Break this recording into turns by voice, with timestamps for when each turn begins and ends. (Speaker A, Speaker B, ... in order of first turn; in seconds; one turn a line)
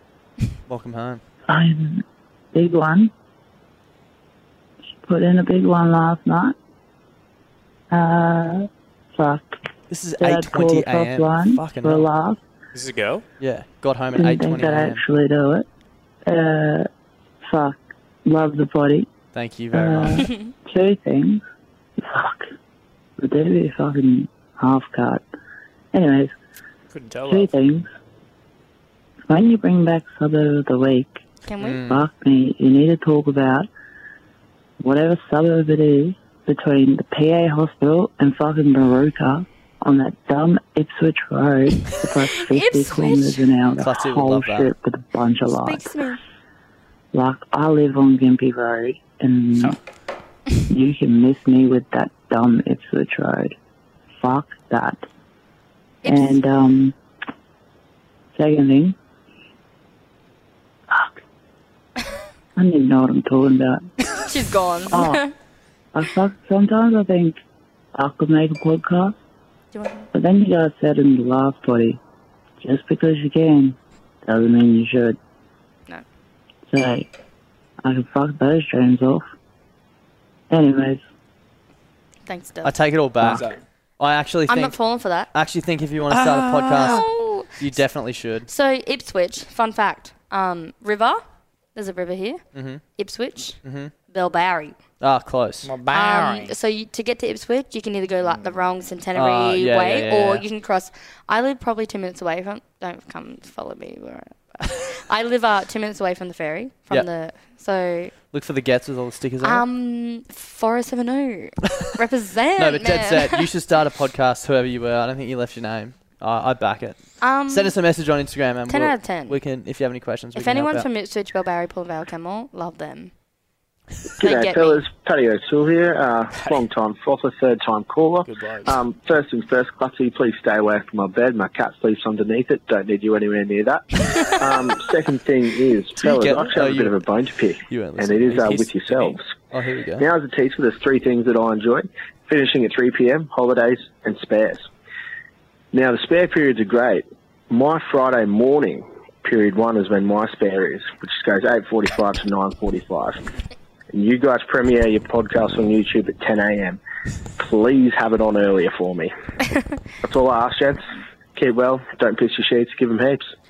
Speaker A: 0.7-1.2
Speaker B: 1.5-3.1
Speaker B: 5.0-6.5
Speaker B: 7.9-9.6
Speaker A: 9.9-12.1
Speaker B: 10.2-12.4
Speaker C: 12.7-13.2
Speaker A: 13.4-15.0
Speaker B: 14.2-15.7
Speaker B: 16.3-16.9
Speaker B: 17.4-19.1
Speaker A: 19.3-20.2
Speaker B: 19.7-21.4
Speaker B: 22.0-22.5
Speaker B: 23.2-25.2
Speaker B: 25.9-26.3
Speaker C: 26.9-27.6
Speaker B: 27.3-27.9
Speaker B: 29.3-31.2
Speaker D: 31.5-31.8
Speaker A: 31.6-32.0
Speaker B: 31.9-33.7
Speaker B: 34.8-45.9
Speaker D: 42.5-43.5
Speaker A: 43.8-44.7
Speaker D: 45.6-46.2
Speaker B: 47.1-49.8
Speaker B: 50.7-53.5
Speaker B: 54.2-55.0
Speaker D: 56.0-56.4
Speaker B: 56.1-57.0
Speaker B: 58.3-59.0
Speaker B: 62.6-63.9
Speaker D: 64.2-65.3
Speaker B: 64.9-65.2
Speaker B: 65.9-67.4
Speaker B: 68.0-69.2
Speaker D: 69.7-70.1
Speaker B: 70.1-72.0
Speaker B: 72.6-75.2
Speaker B: 76.7-77.1
Speaker B: 77.8-79.3
Speaker B: 80.5-81.0
Speaker D: 82.3-82.8
Speaker A: 82.6-83.4
Speaker C: 83.3-83.6
Speaker A: 84.0-84.8
Speaker D: 84.5-85.3
Speaker A: 85.3-87.0
Speaker C: 86.1-87.0
Speaker D: 86.8-87.6
Speaker A: 87.6-88.5
Speaker D: 88.5-91.2
Speaker D: 91.8-92.4
Speaker A: 92.5-92.8
Speaker D: 93.0-94.8
Speaker A: 93.6-93.9
Speaker A: 95.0-95.7
Speaker C: 95.6-96.5
Speaker D: 95.9-108.1
Speaker C: 98.2-98.6
Speaker A: 99.1-100.4
Speaker A: 108.3-109.7
Speaker D: 109.4-113.5
Speaker A: 112.6-120.9
Speaker D: 117.2-117.8
Speaker D: 118.7-119.4
Speaker D: 120.3-123.1
Speaker E: 124.2-133.8
Speaker D: 124.2-124.8
Speaker C: 126.3-126.7
Speaker C: 128.2-128.8
Speaker E: 134.4-139.3
Speaker A: 136.0-137.0
Speaker A: 137.7-138.9
Speaker A: 139.5-140.1
Speaker E: 140.0-144.7
Speaker E: 145.7-153.2
Speaker E: 153.9-156.8
Speaker E: 157.4-159.1
Speaker E: 160.0-160.8
Speaker E: 161.3-163.3